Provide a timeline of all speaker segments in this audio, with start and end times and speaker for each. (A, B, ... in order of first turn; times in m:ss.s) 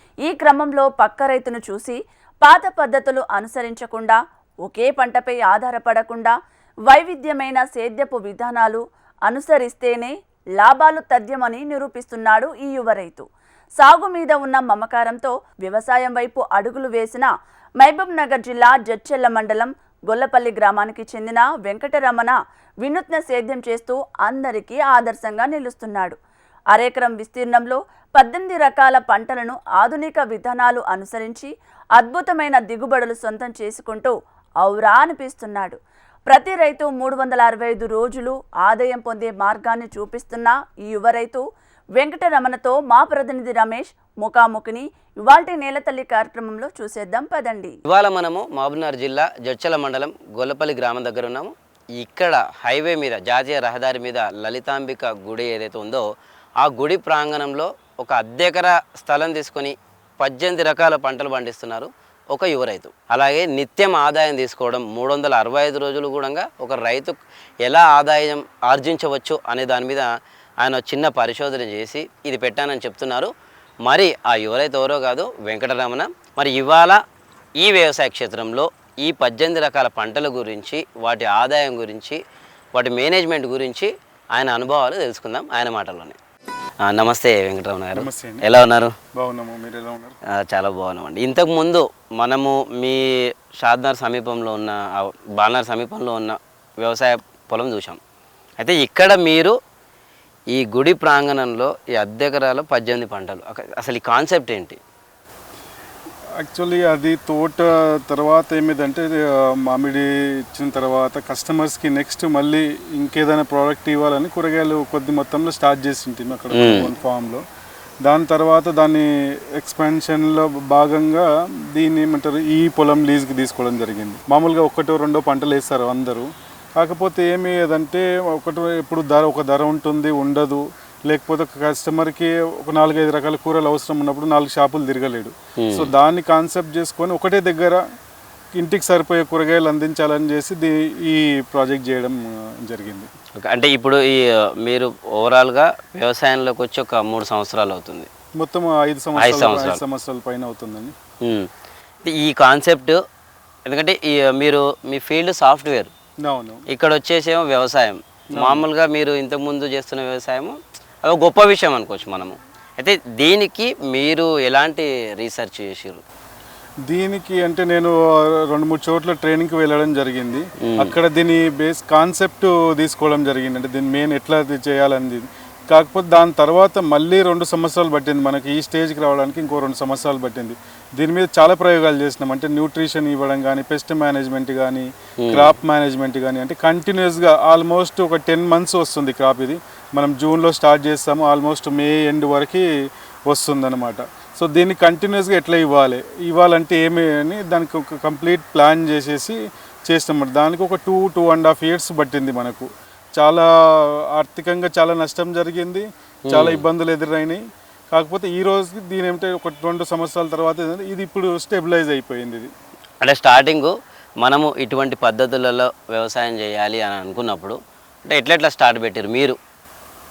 0:00.2-0:06.3 A
0:06.9-0:13.3 A
0:13.8-0:17.3 A
0:17.8-0:26.2 A
0:26.7-0:35.8 A
0:36.3-0:41.4 A
0:42.0-0:47.8 A
0:47.9-0:56.0 B
0:56.6-1:10.1 B
1:10.6-1:13.3 B
1:13.8-1:17.0 B
1:17.6-1:22.2 B
1:22.7-1:26.2 B
1:26.8-1:29.0 B
1:28.0-1:28.5 C
1:29.2-1:30.2 C
1:30.5-1:38.0 B
1:38.6-1:39.6 B
1:40.5-1:44.8 B
1:46.4-1:57.4 C
1:56.5-1:56.9 B
1:58.0-2:17.8 C
2:15.6-2:15.9 B
2:18.6-2:23.1 C
2:23.4-2:28.1 B
2:28.4-2:31.0 C
2:29.2-2:29.8 B
2:32.0-2:33.0 B
2:33.7-2:35.9 B
2:36.2-2:36.6 C
2:36.7-2:46.0 B
2:38.3-2:38.6 C
2:46.8-3:12.7 C
2:50.7-2:50.9 B
3:05.2-3:05.5 B
3:13.3-3:19.4 C
3:19.9-3:27.4 C
3:26.3-3:26.6 B
3:27.9-3:32.5 C
3:33.0-3:39.4 B